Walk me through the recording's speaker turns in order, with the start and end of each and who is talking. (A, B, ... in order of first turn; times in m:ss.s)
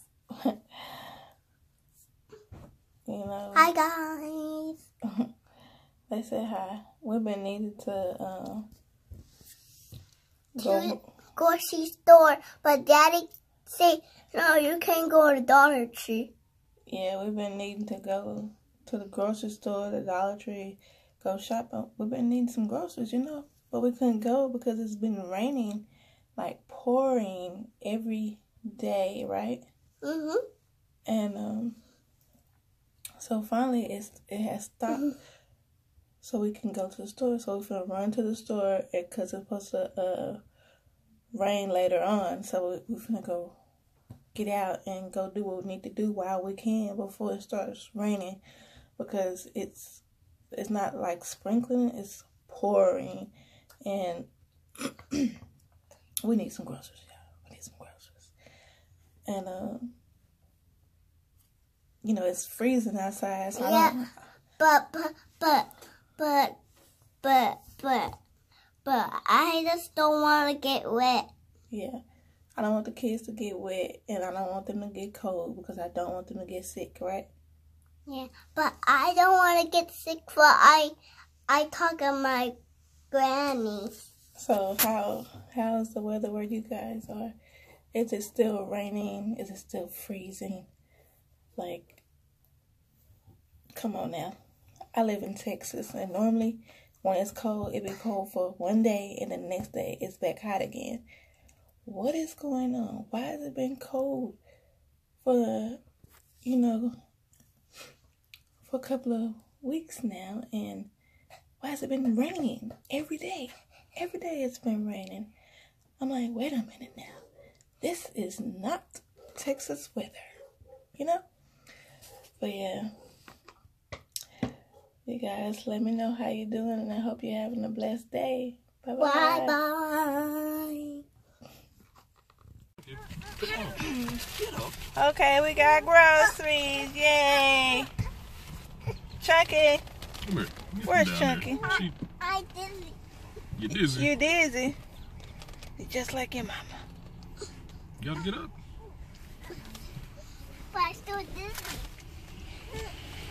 0:00.3-0:01.1 A
0:03.0-0:03.7 A
0:03.5-0:04.8 B
0:06.1-0:08.7 A
0:10.6-0:16.3 B
0:10.6-0:11.0 A
0:16.9-0:29.6 A
0:30.0-0:30.4 B
0:31.0-0:31.8 A
0:33.2-0:35.1 A
0:36.2-0:40.4 A
0:41.3-0:43.6 A
0:44.3-0:48.4 A
0:49.0-0:53.3 A
0:53.8-0:54.3 A
0:54.8-0:55.4 A
0:56.2-0:58.3 A
0:59.3-0:59.9 A
1:02.0-1:04.1 A
1:03.6-1:03.9 B
1:04.6-1:06.6 B
1:07.2-1:08.2 B
1:08.8-1:11.3 B
1:11.7-1:12.0 A
1:12.6-1:17.3 A
1:18.0-1:20.9 B
1:21.5-1:22.6 B
1:23.1-1:24.1 B
1:24.4-1:27.3 A
1:27.9-1:30.7 A
1:31.6-1:32.0 A
1:33.7-1:34.4 A
1:34.9-1:41.0 A
1:41.8-1:44.4 A
1:45.2-1:45.8 A
1:46.4-1:46.9 A
1:48.6-1:50.9 A
1:51.6-1:55.3 A
1:56.0-1:57.2 A
1:57.8-2:00.3 A
2:01.0-2:01.2 A
2:02.4-2:02.9 A
2:05.0-2:09.6 A
2:09.0-2:11.0 B
2:13.4-2:14.7 C
2:13.4-2:13.9 B
2:14.9-2:17.9 A
2:19.2-2:19.8 A
2:20.2-2:22.0 C
2:20.8-2:21.7 A
2:22.2-2:23.0 B
2:23.6-2:24.1 C
2:23.7-2:24.8 A
2:25.8-2:26.8 A
2:28.0-2:28.5 C
2:30.7-2:31.9 B